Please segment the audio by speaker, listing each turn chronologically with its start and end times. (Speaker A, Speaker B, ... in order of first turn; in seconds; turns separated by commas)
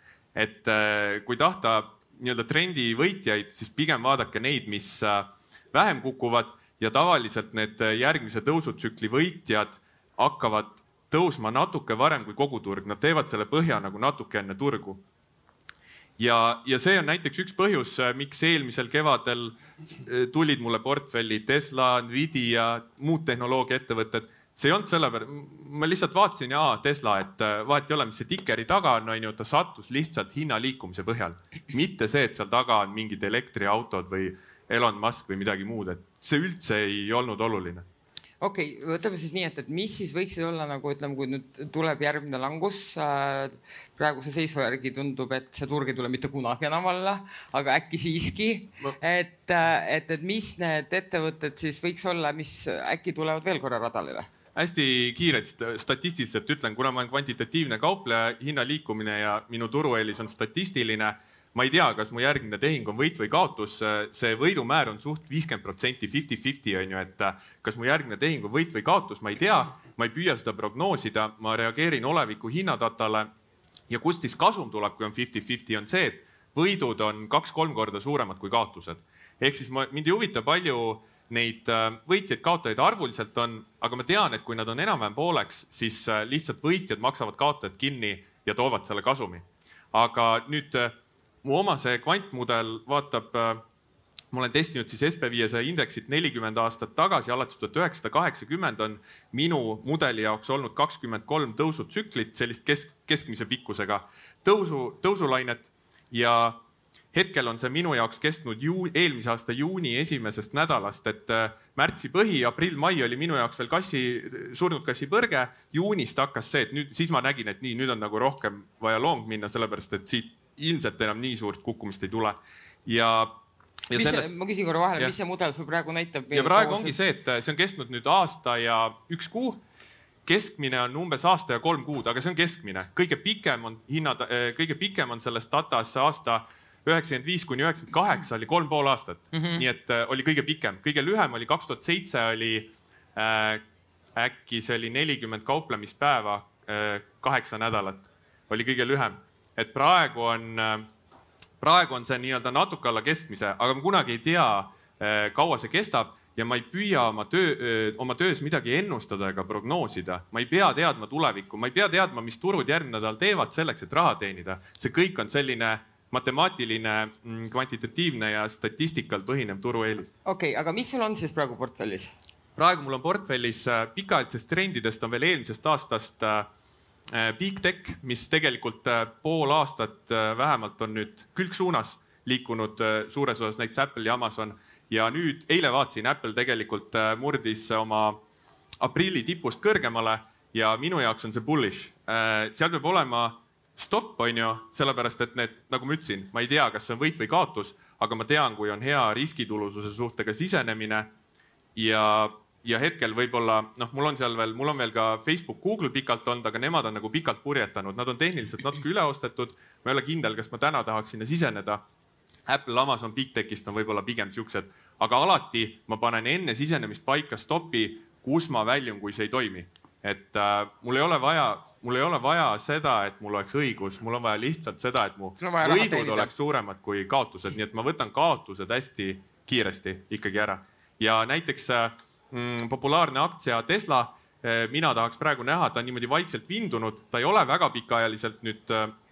Speaker A: 0.3-15.0, Speaker A: 16.2-37.8, Speaker B: 38.4-54.3, Speaker A: 54.5-73.3, Speaker A: 73.9-93.6, Speaker A: 94.3-106.6, Speaker A: 107.1-123.4, Speaker A: 123.9-124.3, Speaker B: 123.9-126.9, Speaker A: 126.3-129.6, Speaker A: 130.2-143.6, Speaker B: 139.3-139.6, Speaker A: 144.2-150.9, Speaker A: 151.6-170.1, Speaker B: 170.2-172.1, Speaker A: 172.6-176.5, Speaker A: 177.1-188.2, Speaker A: 188.8-201.1, Speaker A: 201.7-211.8, Speaker A: 212.5-238.9, Speaker B: 225.4-226.3